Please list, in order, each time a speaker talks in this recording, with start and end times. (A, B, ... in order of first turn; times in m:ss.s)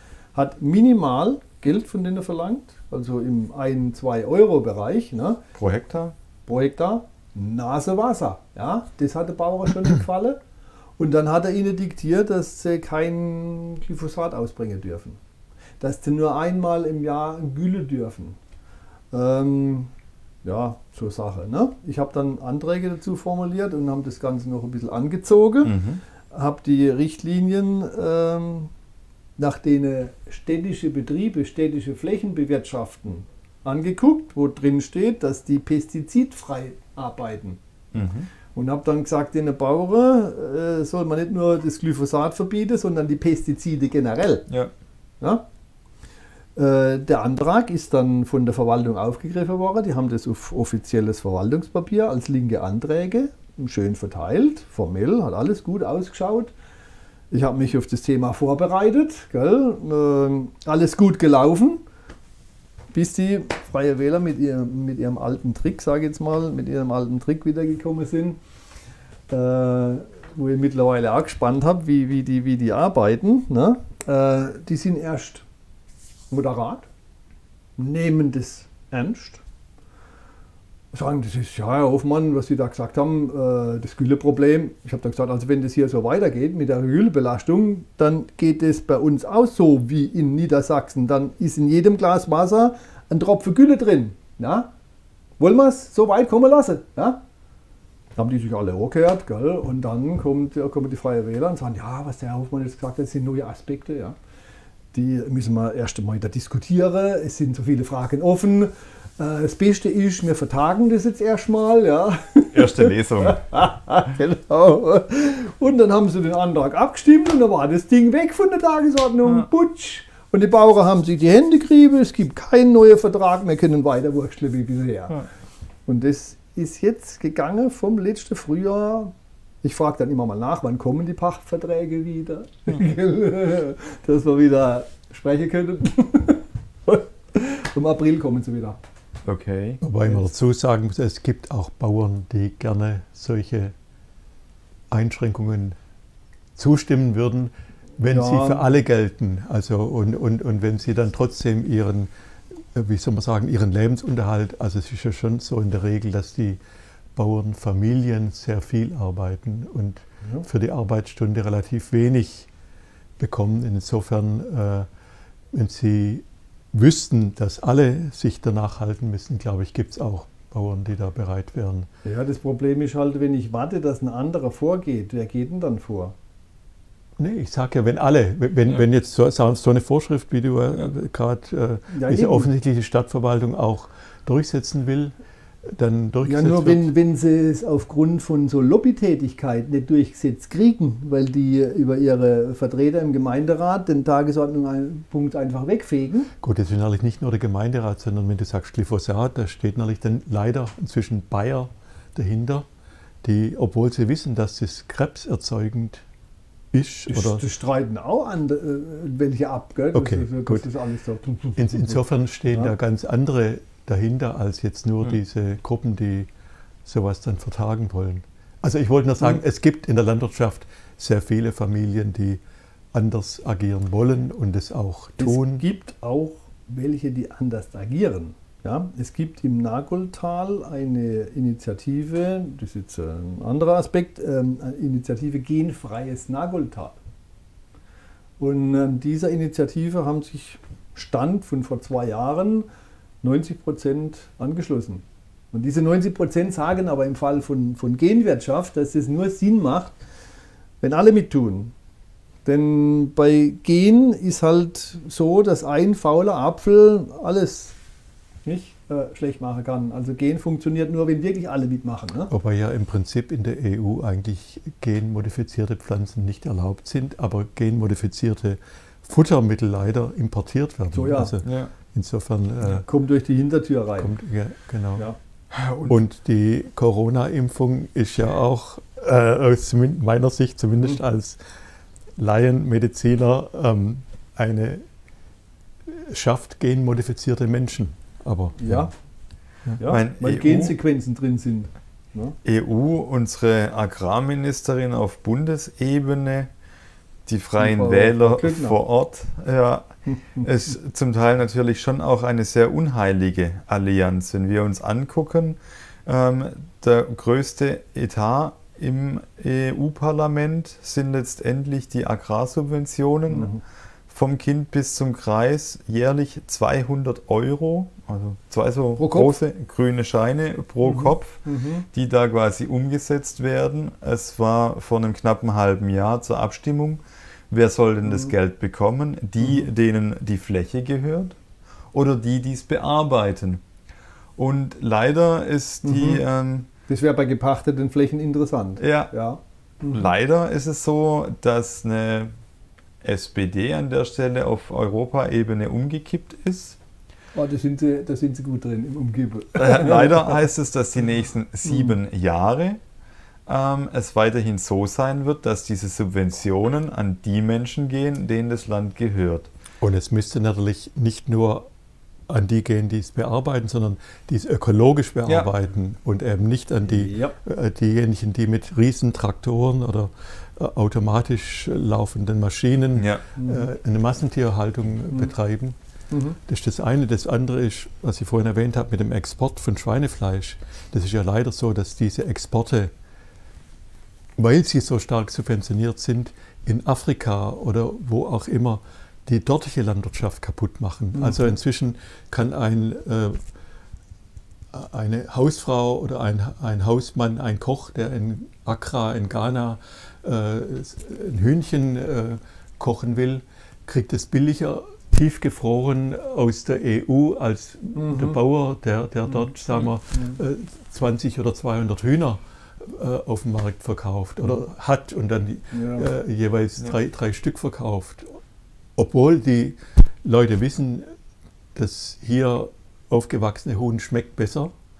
0:00.3-0:05.4 A
0:05.5-0:06.1 B
0:06.5-0:10.4 A
0:11.0-0:15.2 A
0:15.8-0:18.4 A
0:19.1-0:19.9 A
0:20.4-0:25.8 A
0:25.6-0:26.0 B
0:26.3-0:28.7 A
0:29.4-0:37.6 A
0:37.9-0:38.3 B
0:38.5-0:44.5 A
0:46.6-0:56.5 A
0:57.3-1:01.8 A
1:02.9-1:08.4 A
1:09.3-1:15.4 A
1:16.3-1:16.9 A
1:17.8-1:19.4 A
1:20.9-1:34.7 A
1:35.4-1:37.2 A
1:38.2-1:44.2 A
1:44.9-2:05.2 A
1:52.5-1:53.4 B
2:05.9-2:18.8 A
2:19.2-2:19.8 B
2:19.8-2:23.7 C
2:24.9-2:25.8 C
2:26.6-2:36.6 C
2:28.1-2:28.6 A
2:37.2-2:42.5 C
2:43.2-2:44.9 C
2:45.5-2:51.9 C
2:52.0-2:56.1 A
2:57.2-3:06.9 C
3:01.9-3:02.5 A
3:06.2-3:16.3 A
3:16.4-3:22.6 C
3:23.2-3:26.0 C
3:26.7-3:27.4 C
3:27.1-3:32.7 A
3:29.9-3:30.7 C
3:31.6-3:36.3 C
3:36.8-3:42.4 C
3:42.9-3:45.6 C
3:45.2-3:57.0 A
3:58.4-4:02.7 A
4:03.2-4:10.0 A
4:10.8-4:11.7 A
4:12.4-4:17.8 A
4:18.4-4:22.3 A
4:22.3-4:32.8 C
4:30.9-4:31.4 A
4:31.4-4:31.7 B
4:32.6-4:34.1 A
4:34.0-4:35.1 C
4:35.5-4:36.0 B
4:35.9-4:41.4 C
4:42.2-4:44.8 C
4:45.8-4:48.9 C
4:48.6-4:48.9 A
4:49.8-4:52.4 A
4:49.9-4:50.7 B
4:52.4-4:56.5 B
4:57.2-5:13.5 B
4:57.6-4:58.8 A
5:00.1-5:00.4 A
5:13.3-5:13.6 A
5:14.1-5:21.4 B
5:19.0-5:19.3 A
5:20.8-5:21.8 A
5:21.9-5:31.4 B
5:28.0-5:28.3 A
5:29.4-5:29.7 A
5:31.9-5:33.6 B
5:34.4-5:36.7 B
5:35.8-5:36.2 A
5:36.9-5:40.0 A
5:38.8-5:39.1 B
5:39.9-5:42.3 B
5:43.0-5:46.8 B
5:47.3-5:50.4 A
5:49.6-5:52.8 B
5:51.7-5:51.9 A
5:53.4-5:59.5 B
5:59.8-6:01.7 C
6:02.3-6:15.8 C
6:05.3-6:05.5 B
6:06.9-6:07.4 A
6:13.0-6:13.2 B
6:13.4-6:13.6 A
6:16.1-6:16.4 A
6:16.5-6:22.9 C
6:24.4-6:33.4 C
6:31.1-6:31.4 A
6:34.7-6:58.4 C
6:47.9-6:48.4 A
6:50.1-6:50.4 A
6:55.7-6:56.1 A
6:59.0-7:01.1 C
7:01.7-7:04.7 C